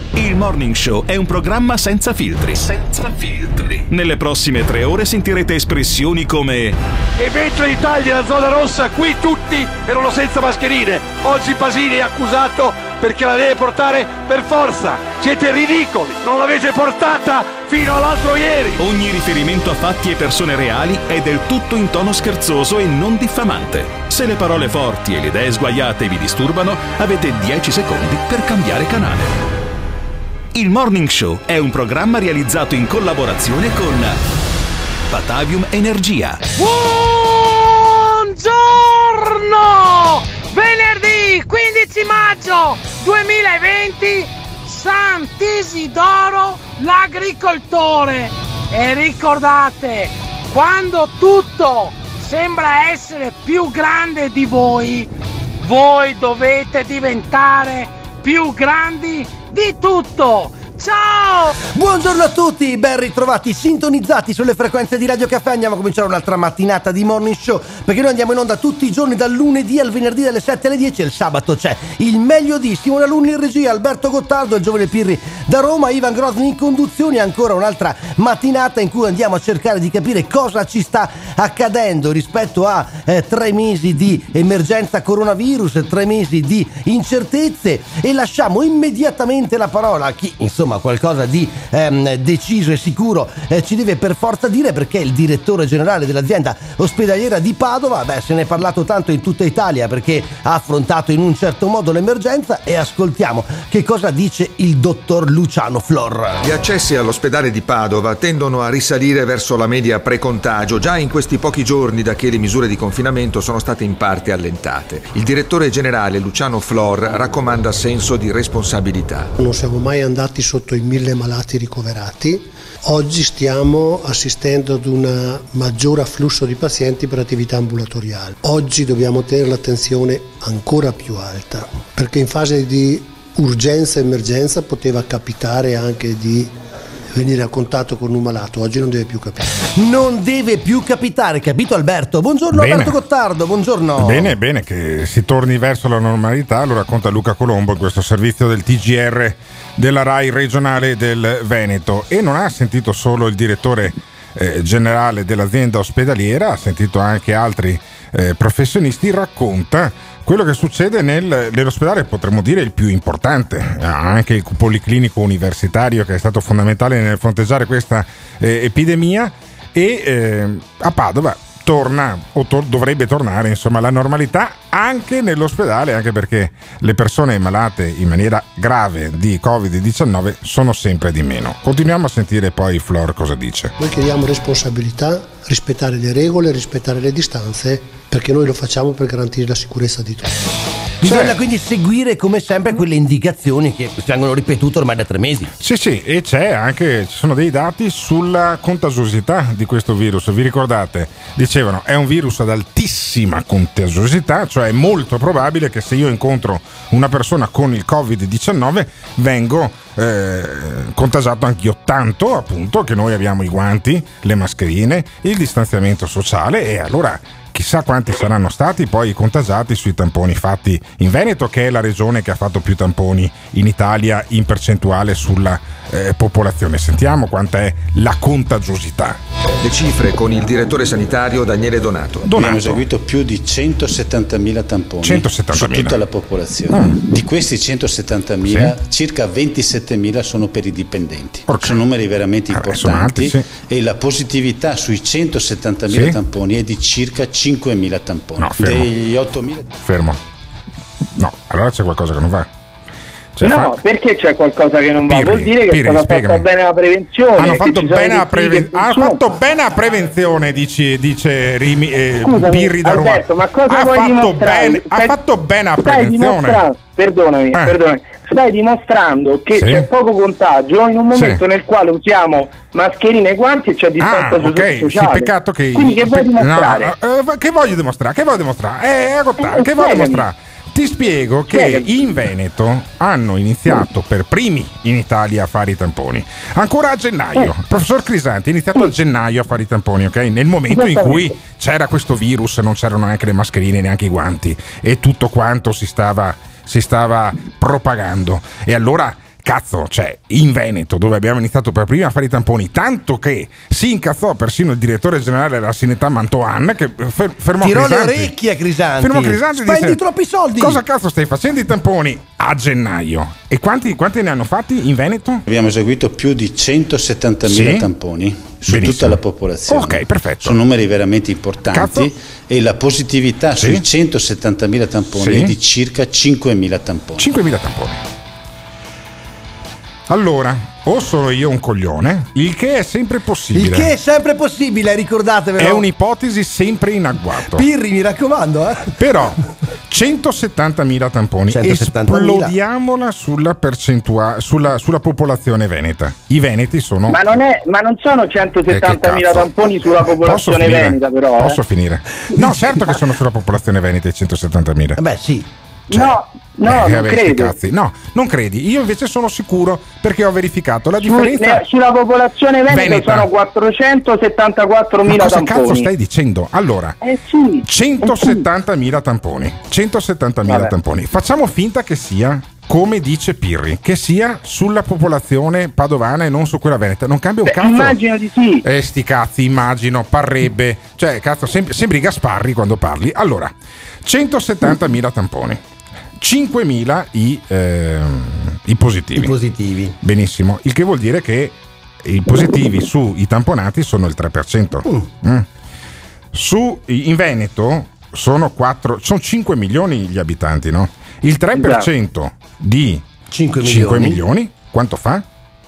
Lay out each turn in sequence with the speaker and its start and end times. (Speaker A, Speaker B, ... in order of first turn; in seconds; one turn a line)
Speaker A: 0.1-6.8
Speaker B: 7.2-18.9
Speaker A: 18.8-29.3
Speaker A: 30.5-34.2
Speaker A: 35.1-36.4
Speaker C: 36.6-55.1
Speaker C: 55.6-61.5
Speaker D: 61.7-106.4
Speaker E: 106.4-119.3
Speaker F: 119.4-136.5
Speaker F: 137.1-139.6
Speaker D: 139.8-144.3
Speaker G: 142.5-143.0
Speaker G: 144.0-183.7
Speaker F: 183.8-190.5
Speaker D: 191.0-195.5
Speaker G: 191.0-191.4
Speaker G: 195.6-229.2
Speaker E: 229.6-232.3
Speaker G: 232.3-232.8
Speaker H: 232.3-249.8
Speaker G: 235.0-236.0
Speaker G: 236.7-237.0
Speaker G: 238.4-238.8
Speaker G: 241.5-241.8
Speaker G: 242.5-243.4
Speaker G: 245.9-246.2
Speaker G: 248.4-248.9
Speaker G: 249.8-250.2
Speaker G: 251.2-252.5
Speaker G: 253.4-253.8
Speaker I: 253.4-259.2
Speaker G: 255.1-256.5
Speaker G: 257.4-266.6
Speaker I: 262.2-265.1
Speaker I: 265.8-276.9
Speaker G: 267.5-267.8
Speaker G: 269.6-269.9
Speaker G: 271.1-271.4
Speaker G: 274.0-308.3
Speaker I: 279.4-280.2
Speaker I: 281.5-281.9
Speaker I: 290.7-291.3
Speaker D: 307.6-310.8
Speaker G: 309.0-310.0
Speaker G: 310.6-315.4
Speaker H: 315.5-327.3
Speaker G: 317.4-317.9
Speaker G: 318.7-320.6
Speaker G: 321.7-322.1
Speaker G: 323.6-323.8
Speaker G: 325.1-325.6
Speaker G: 327.2-328.0
Speaker G: 330.1-333.9
Speaker D: 333.5-335.8
Speaker G: 335.6-337.7
Speaker D: 337.5-338.9
Speaker G: 339.0-347.2
Speaker D: 341.5-342.5
Speaker I: 347.1-351.6
Speaker G: 348.7-349.5
Speaker G: 350.1-355.0
Speaker D: 355.0-355.5
Speaker I: 355.9-357.6
Speaker G: 356.7-361.6
Speaker I: 361.0-365.9
Speaker G: 362.7-363.3
Speaker G: 365.1-367.0
Speaker I: 367.0-368.4
Speaker G: 367.6-378.0
Speaker I: 370.5-370.7
Speaker I: 377.5-378.6
Speaker G: 378.6-383.5
Speaker G: 384.0-385.6
Speaker G: 386.2-389.4
Speaker D: 389.1-389.9
Speaker G: 390.0-395.5
Speaker G: 396.3-403.1
Speaker D: 403.3-404.2
Speaker G: 403.6-405.2